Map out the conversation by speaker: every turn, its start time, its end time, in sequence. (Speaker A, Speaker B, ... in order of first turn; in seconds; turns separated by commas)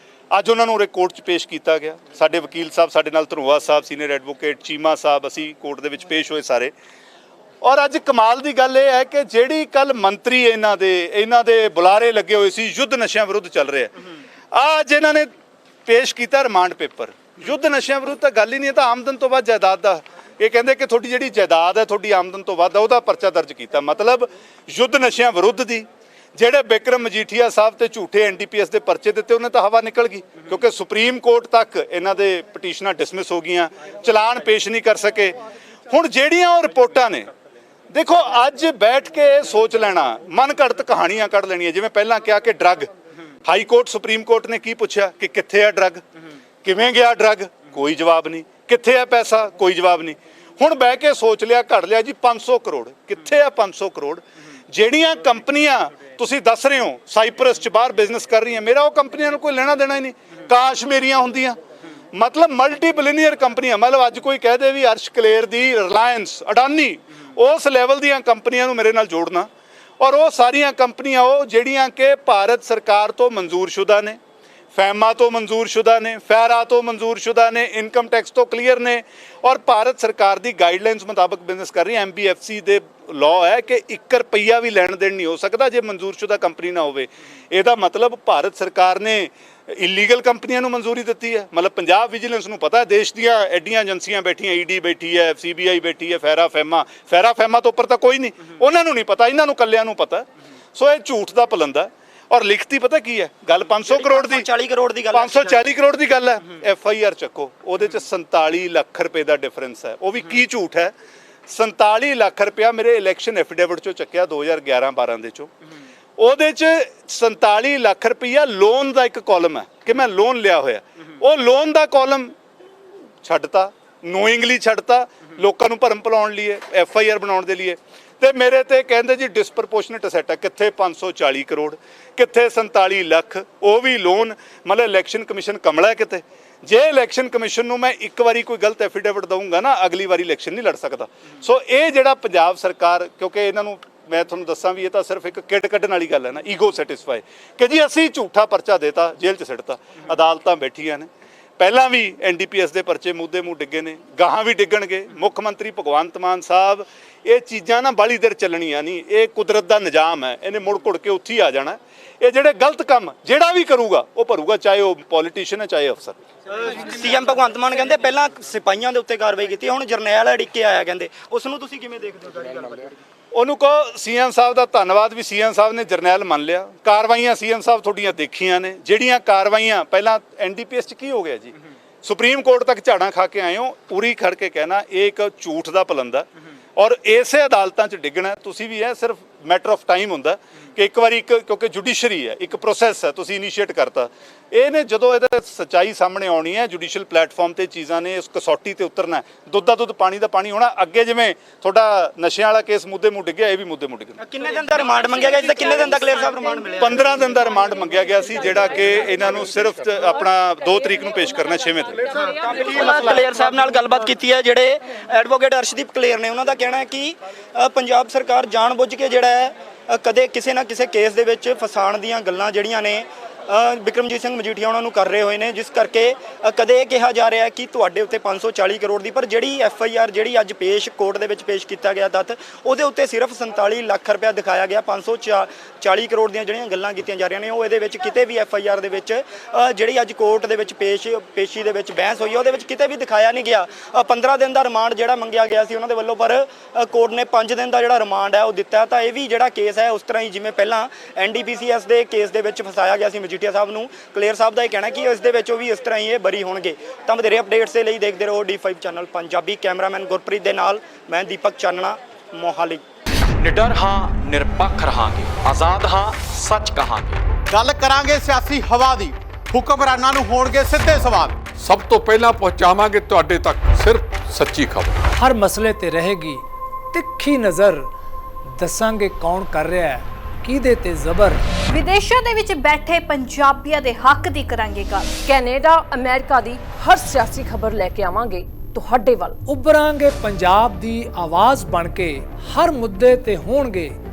Speaker A: 0.3-6.7, Speaker A: 7.6-13.9, Speaker A: 14.5-15.3, Speaker A: 15.8-35.4, Speaker A: 35.9-37.3, Speaker A: 37.9-42.9, Speaker A: 43.5-46.0, Speaker A: 46.6-61.6, Speaker A: 62.1-69.5, Speaker A: 70.0-74.2, Speaker A: 74.7-104.5, Speaker B: 103.8-105.6, Speaker A: 105.1-110.9, Speaker A: 111.5-115.5, Speaker A: 116.2-122.3, Speaker A: 123.2-166.2, Speaker B: 166.7-172.9, Speaker A: 173.3-204.2, Speaker B: 204.2-207.0, Speaker A: 206.8-212.1, Speaker B: 212.3-262.8, Speaker C: 263.4-267.2, Speaker D: 267.5-271.3, Speaker E: 271.5-275.0, Speaker F: 275.1-277.9, Speaker F: 278.6-281.4, Speaker G: 281.7-285.2, Speaker H: 285.2-289.4, Speaker F: 289.4-293.9